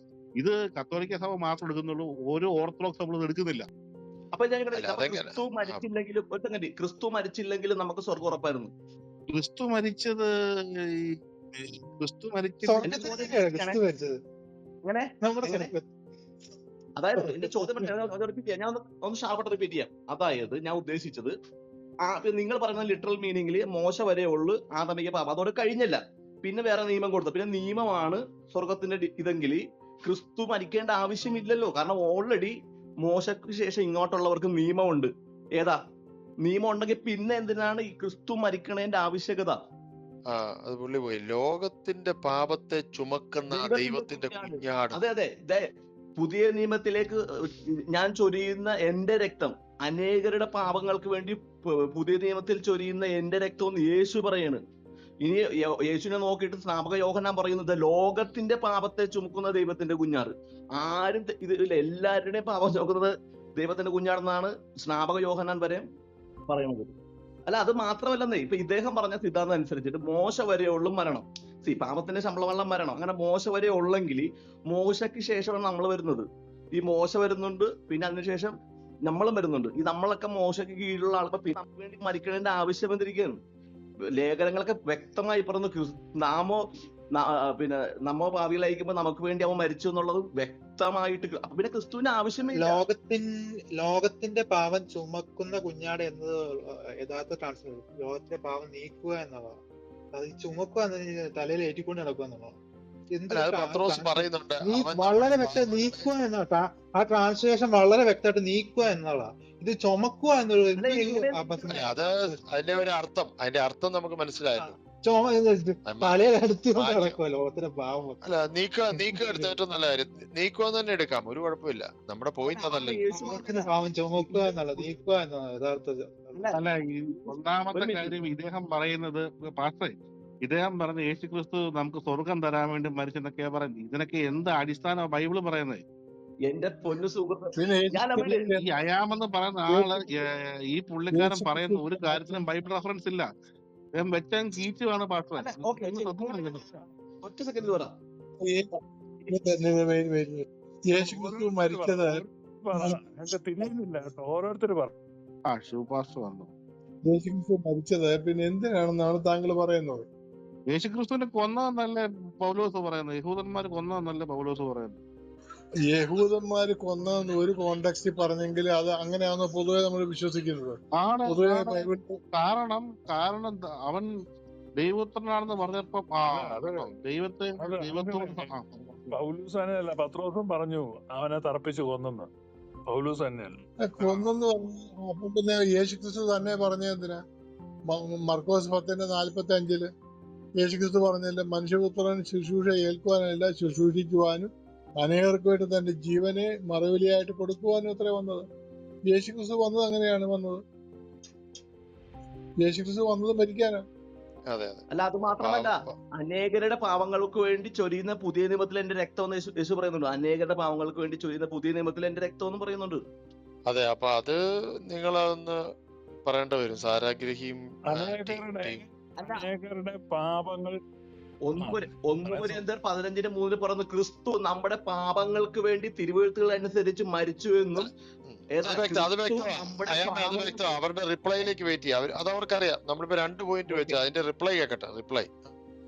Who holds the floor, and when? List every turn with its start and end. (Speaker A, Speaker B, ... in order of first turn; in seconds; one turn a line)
Speaker A: 0.4-3.7
Speaker B: 4.3-8.7
Speaker C: 4.8-5.8
Speaker A: 9.3-13.0
Speaker D: 12.6-14.2
Speaker B: 12.8-13.8
Speaker B: 14.9-15.7
Speaker D: 15.2-15.8
Speaker B: 17.0-21.3
Speaker D: 17.2-18.1
Speaker B: 22.1-35.8
Speaker B: 36.4-39.6
Speaker C: 40.3-45.0
Speaker B: 43.5-45.7
Speaker B: 46.2-47.2
Speaker B: 47.9-54.6
Speaker B: 55.2-65.9
Speaker B: 66.5-67.0
Speaker B: 67.5-76.2
Speaker B: 76.8-78.5
Speaker B: 79.1-83.3
Speaker B: 84.2-86.6
Speaker B: 87.2-92.8
Speaker D: 92.5-99.6
Speaker D: 100.1-102.6
Speaker D: 103.1-112.4
Speaker C: 103.3-106.1
Speaker B: 110.8-111.9
Speaker C: 111.7-114.8
Speaker D: 114.6-118.2
Speaker C: 115.9-116.2
Speaker C: 116.8-117.2
Speaker C: 118.2-123.0
Speaker D: 118.9-119.5
Speaker B: 122.4-124.9
Speaker D: 123.1-126.6
Speaker A: 126.5-135.8
Speaker B: 127.2-128.2
Speaker B: 136.5-138.5
Speaker E: 137.5-138.6
Speaker A: 138.6-143.3
Speaker E: 139.7-140.0
Speaker E: 141.1-142.5
Speaker A: 143.9-146.7
Speaker B: 145.4-147.9
Speaker E: 148.4-148.7
Speaker E: 149.3-152.2
Speaker F: 151.0-154.9
Speaker E: 152.8-153.0
Speaker A: 155.5-156.5
Speaker E: 157.1-160.1
Speaker A: 160.7-165.0
Speaker E: 165.9-172.2
Speaker A: 171.0-174.1
Speaker A: 174.8-179.1
Speaker F: 176.3-176.9
Speaker F: 177.6-178.5
Speaker F: 179.1-182.3
Speaker F: 182.9-183.6
Speaker E: 183.8-187.2
Speaker E: 187.9-189.9
Speaker E: 190.6-198.5
Speaker E: 199.1-200.6
Speaker E: 202.6-203.8
Speaker C: 204.5-204.8
Speaker B: 204.9-213.0
Speaker C: 205.4-206.0
Speaker C: 213.7-214.4
Speaker C: 214.9-215.6
Speaker C: 216.2-218.8
Speaker F: 217.9-220.8
Speaker B: 219.2-219.4
Speaker B: 221.4-227.9
Speaker F: 221.6-222.6
Speaker C: 227.8-235.4
Speaker B: 228.5-230.8
Speaker F: 233.7-234.0